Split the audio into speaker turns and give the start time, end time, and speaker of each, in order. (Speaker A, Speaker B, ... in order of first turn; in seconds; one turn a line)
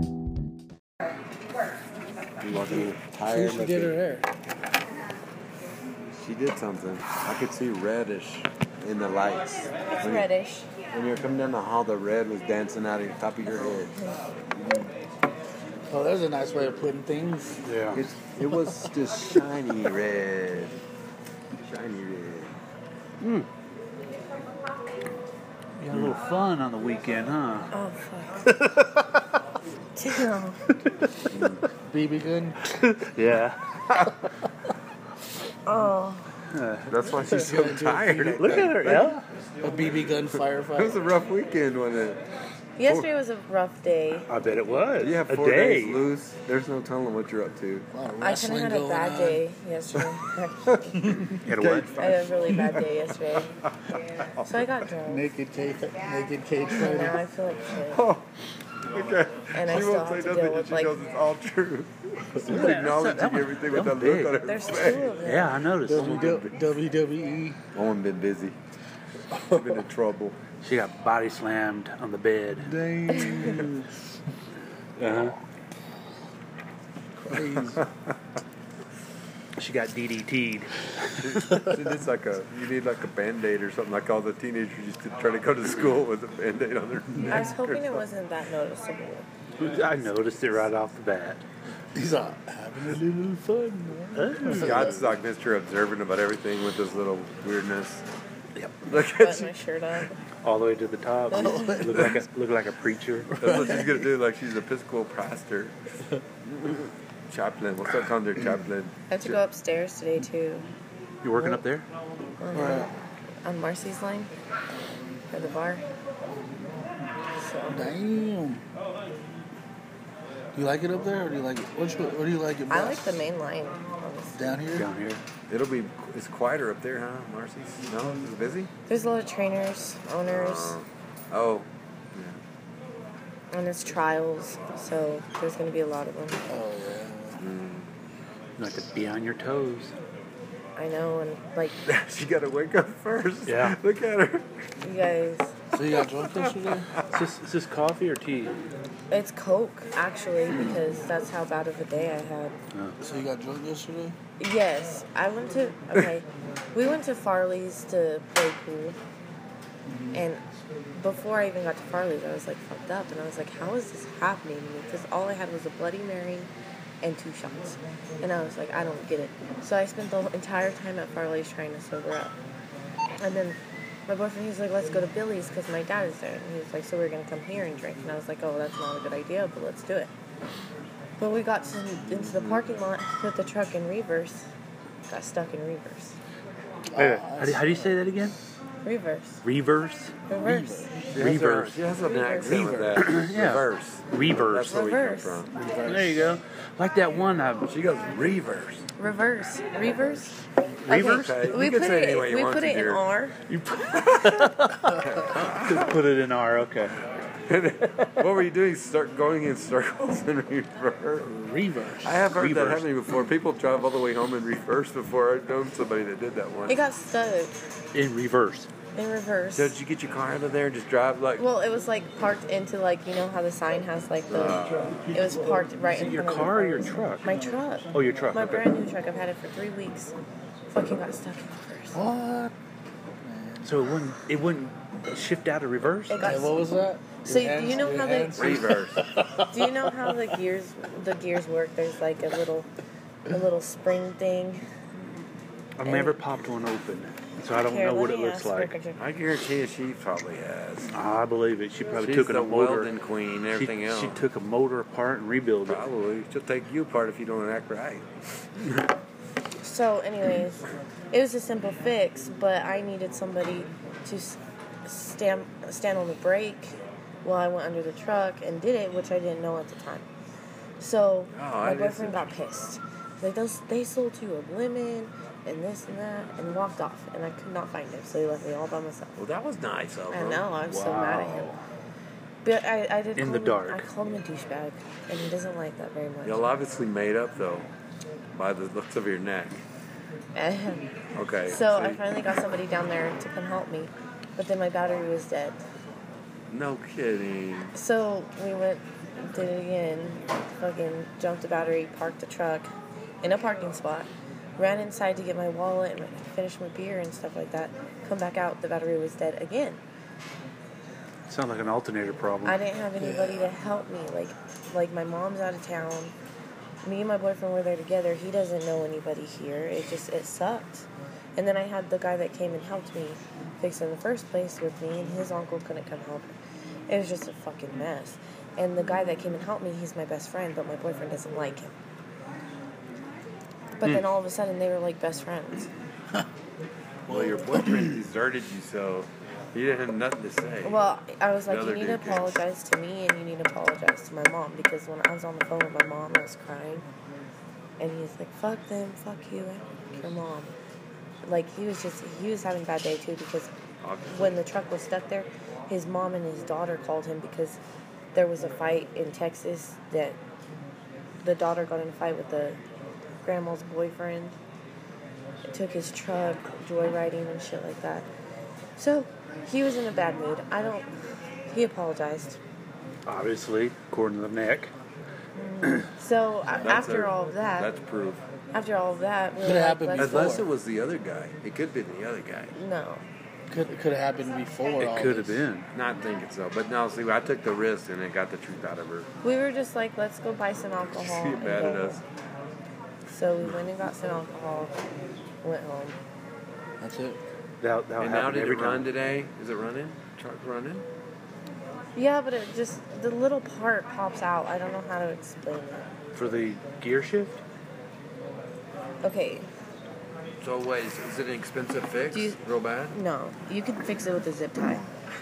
Speaker A: 2.4-4.0
Speaker B: 3.2-4.3
Speaker A: 6.1-10.3
Speaker C: 9.8-10.7
Speaker A: 10.9-13.9
Speaker A: 14.5-14.9
Speaker B: 15.9-17.6
Speaker D: 17.6-18.0
Speaker A: 17.9-20.8
Speaker A: 21.6-22.6
Speaker D: 23.2-23.5
Speaker D: 25.8-27.7
Speaker A: 25.9-26.2
Speaker C: 27.7-28.5
Speaker D: 28.4-29.2
Speaker C: 29.9-30.6
Speaker D: 30.9-31.4
Speaker A: 31.3-31.6
Speaker B: 31.8-32.7
Speaker D: 32.7-33.6
Speaker C: 35.7-36.4
Speaker D: 36.5-37.1
Speaker A: 36.9-39.2
Speaker B: 37.2-38.9
Speaker D: 38.4-39.3
Speaker B: 39.6-41.0
Speaker A: 40.8-42.2
Speaker C: 42.8-44.3
Speaker D: 44.3-46.0
Speaker A: 45.0-47.9
Speaker B: 47.9-49.5
Speaker C: 48.2-51.2
Speaker B: 51.0-51.4
Speaker D: 51.5-52.0
Speaker A: 51.5-52.2
Speaker C: 51.9-53.6
Speaker A: 53.6-54.6
Speaker C: 54.4-55.3
Speaker B: 55.0-57.2
Speaker C: 56.7-58.0
Speaker A: 57.9-58.3
Speaker A: 58.9-65.2
Speaker C: 59.5-61.0
Speaker D: 62.4-64.3
Speaker C: 64.4-65.7
Speaker D: 65.2-66.4
Speaker B: 65.8-67.6
Speaker A: 65.9-66.6
Speaker A: 67.7-68.6
Speaker B: 69.3-69.8
Speaker A: 69.5-70.4
Speaker D: 70.6-72.7
Speaker B: 72.6-73.9
Speaker D: 75.0-75.3
Speaker A: 77.2-77.9
Speaker B: 77.3-77.8
Speaker D: 79.6-81.7
Speaker A: 81.2-88.0
Speaker C: 87.2-89.2
Speaker D: 89.6-91.4
Speaker B: 91.9-95.1
Speaker D: 94.2-94.9
Speaker A: 94.5-98.0
Speaker A: 98.8-99.5
Speaker C: 99.0-100.2
Speaker D: 100.4-103.4
Speaker C: 101.3-101.8
Speaker B: 101.4-102.0
Speaker A: 101.9-102.2
Speaker B: 103.3-104.0
Speaker A: 103.3-105.8
Speaker A: 106.5-109.4
Speaker C: 109.1-110.7
Speaker D: 111.2-111.8
Speaker C: 112.4-112.9
Speaker B: 112.5-112.9
Speaker C: 113.4-114.3
Speaker C: 115.3-115.8
Speaker C: 117.4-117.8
Speaker B: 117.7-118.6
Speaker B: 120.5-123.2
Speaker C: 122.7-124.6
Speaker B: 124.4-124.9
Speaker D: 124.7-125.2
Speaker A: 125.5-128.7
Speaker C: 128.9-130.8
Speaker A: 130.3-132.4
Speaker C: 133.5-136.4
Speaker B: 136.5-137.4
Speaker A: 137.4-137.9
Speaker D: 138.6-139.9
Speaker C: 140.8-141.8
Speaker A: 141.9-144.6
Speaker D: 143.5-143.8
Speaker C: 144.8-145.5
Speaker B: 145.7-146.9
Speaker A: 146.3-147.1
Speaker D: 147.1-148.6
Speaker C: 149.1-152.6
Speaker B: 153.0-154.2
Speaker C: 154.4-159.0
Speaker B: 159.9-160.2
Speaker C: 160.1-160.4
Speaker C: 160.9-166.5
Speaker C: 167.0-172.3
Speaker C: 173.2-180.1
Speaker C: 181.2-184.5
Speaker A: 182.1-182.7
Speaker C: 185.1-186.2
Speaker B: 186.9-188.3
Speaker D: 187.0-188.3
Speaker C: 188.8-189.4
Speaker D: 189.4-190.1
Speaker C: 190.3-190.9
Speaker B: 190.3-191.1
Speaker D: 191.1-191.8
Speaker A: 191.1-195.5
Speaker C: 192.0-192.9
Speaker B: 192.5-192.9
Speaker D: 193.0-194.7
Speaker C: 194.7-195.5
Speaker B: 195.5-196.2
Speaker D: 195.8-197.7
Speaker A: 197.7-198.9
Speaker C: 199.0-203.4
Speaker D: 200.9-201.5
Speaker A: 201.0-203.1
Speaker D: 203.5-207.0
Speaker A: 203.9-206.0
Speaker A: 207.5-211.3
Speaker B: 211.2-212.1
Speaker A: 212.0-216.8
Speaker D: 212.0-212.9
Speaker C: 216.7-217.5
Speaker D: 217.9-218.7
Speaker C: 219.0-219.8
Speaker A: 219.6-221.5
Speaker C: 221.4-224.6
Speaker A: 224.3-225.0
Speaker C: 225.1-230.1
Speaker D: 225.9-227.3
Speaker D: 227.9-228.7
Speaker C: 230.7-232.0
Speaker B: 231.9-232.5
Speaker B: 233.2-233.8
Speaker D: 233.6-236.3
Speaker C: 236.1-236.7
Speaker B: 236.2-240.1
Speaker C: 237.2-238.8
Speaker A: 238.3-239.1
Speaker C: 239.5-242.7
Speaker C: 243.3-244.7
Speaker D: 245.8-248.8
Speaker C: 245.8-246.2
Speaker C: 247.5-249.0
Speaker A: 249.0-250.9
Speaker D: 250.9-252.9
Speaker A: 251.9-254.2
Speaker D: 253.5-255.8
Speaker A: 255.7-258.1
Speaker C: 259.6-270.1
Speaker C: 270.8-279.2
Speaker A: 271.3-272.3
Speaker A: 279.1-281.5
Speaker C: 280.1-281.5
Speaker D: 280.7-281.6
Speaker C: 282.4-286.4
Speaker D: 283.1-283.9
Speaker A: 286.2-287.7
Speaker A: 288.3-289.6
Speaker C: 290.3-290.9
Speaker A: 291.1-292.0
Speaker C: 291.5-295.6
Speaker A: 296.5-297.8
Speaker C: 297.8-302.7
Speaker C: 303.2-309.8
Speaker D: 311.3-312.6
Speaker C: 312.4-316.1
Speaker B: 313.0-313.4
Speaker C: 316.8-326.3
Speaker C: 326.9-331.7
Speaker C: 333.8-335.7
Speaker D: 333.8-334.1
Speaker B: 337.1-338.0
Speaker A: 337.1-340.8
Speaker C: 340.6-346.8
Speaker A: 341.5-342.4
Speaker C: 347.8-350.5
Speaker C: 351.2-353.5
Speaker A: 353.8-354.4
Speaker C: 354.1-357.6
Speaker C: 358.1-360.2
Speaker C: 361.2-362.6
Speaker C: 363.2-364.3
Speaker C: 365.5-368.1
Speaker C: 368.8-370.9
Speaker C: 371.5-372.4
Speaker D: 373.1-374.7
Speaker C: 375.4-377.7
Speaker A: 376.6-378.2
Speaker C: 378.5-380.4
Speaker B: 379.4-380.5
Speaker A: 380.0-382.5
Speaker C: 382.5-383.0
Speaker B: 383.5-385.5
Speaker D: 384.8-385.7
Speaker A: 385.7-389.1
Speaker C: 389.2-392.0
Speaker A: 391.0-392.0
Speaker C: 393.1-394.7
Speaker C: 395.4-396.0
Speaker B: 396.8-397.2
Speaker D: 397.6-398.9
Speaker A: 398.0-400.8
Speaker C: 401.9-405.9
Speaker D: 406.1-407.4
Speaker C: 409.0-409.5
Speaker A: 410.4-412.9
Speaker C: 412.1-412.4
Speaker C: 412.9-414.9